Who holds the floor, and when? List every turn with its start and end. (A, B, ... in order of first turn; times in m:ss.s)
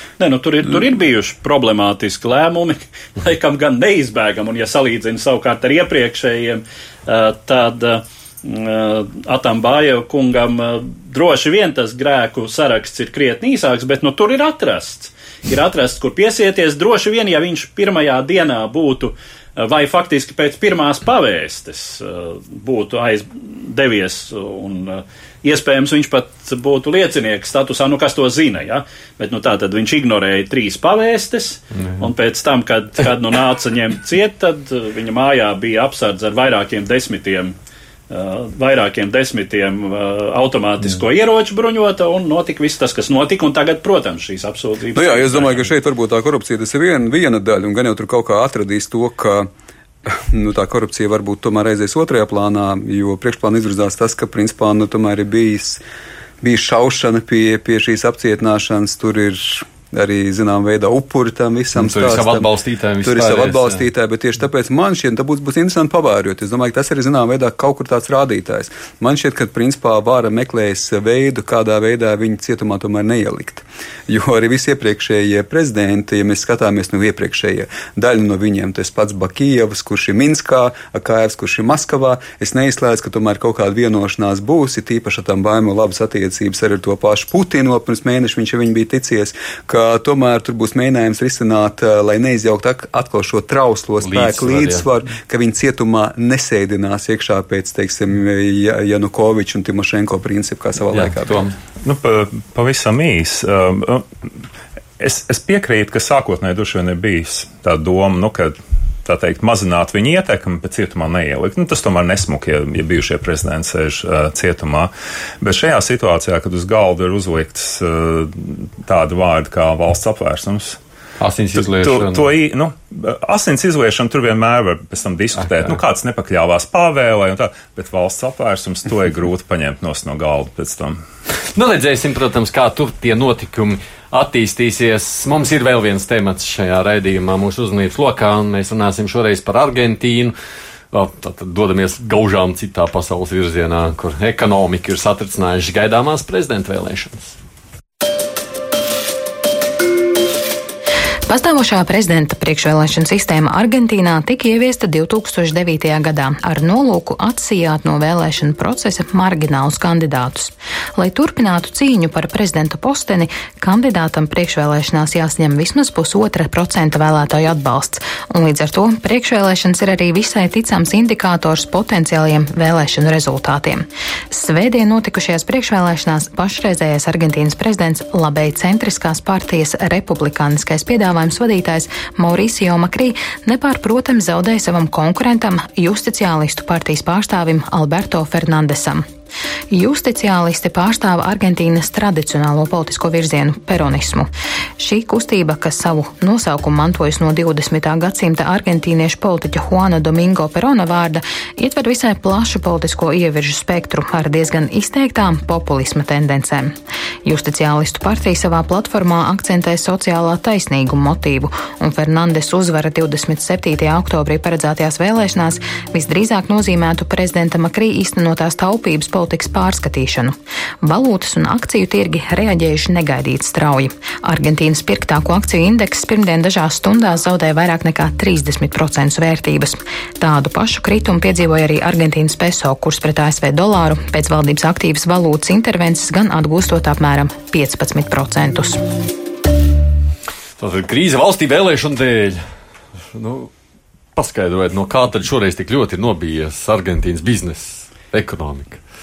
0:00.2-0:37.5 A
0:38.1-0:45.7 A
0:44.9-0:49.5 B
0:50.0-0:55.8 B
0:56.4-1:02.5 B
1:01.8-1:03.8 C
1:03.0-1:41.4 B
1:34.0-1:34.8 C
1:40.9-1:41.6 C
1:41.8-1:44.1 D
1:45.0-2:00.8 D
2:01.2-2:02.3 C
2:01.6-2:11.0 D
2:05.4-2:05.8 C
2:11.5-2:20.3 C
2:20.9-2:27.3 C
2:31.3-3:09.0 E
3:09.7-3:14.3 E
3:14.8-3:26.7 E
3:27.2-3:58.8 E
4:00.6-4:02.4 C
4:03.1-4:03.5 C
4:04.1-4:08.8 C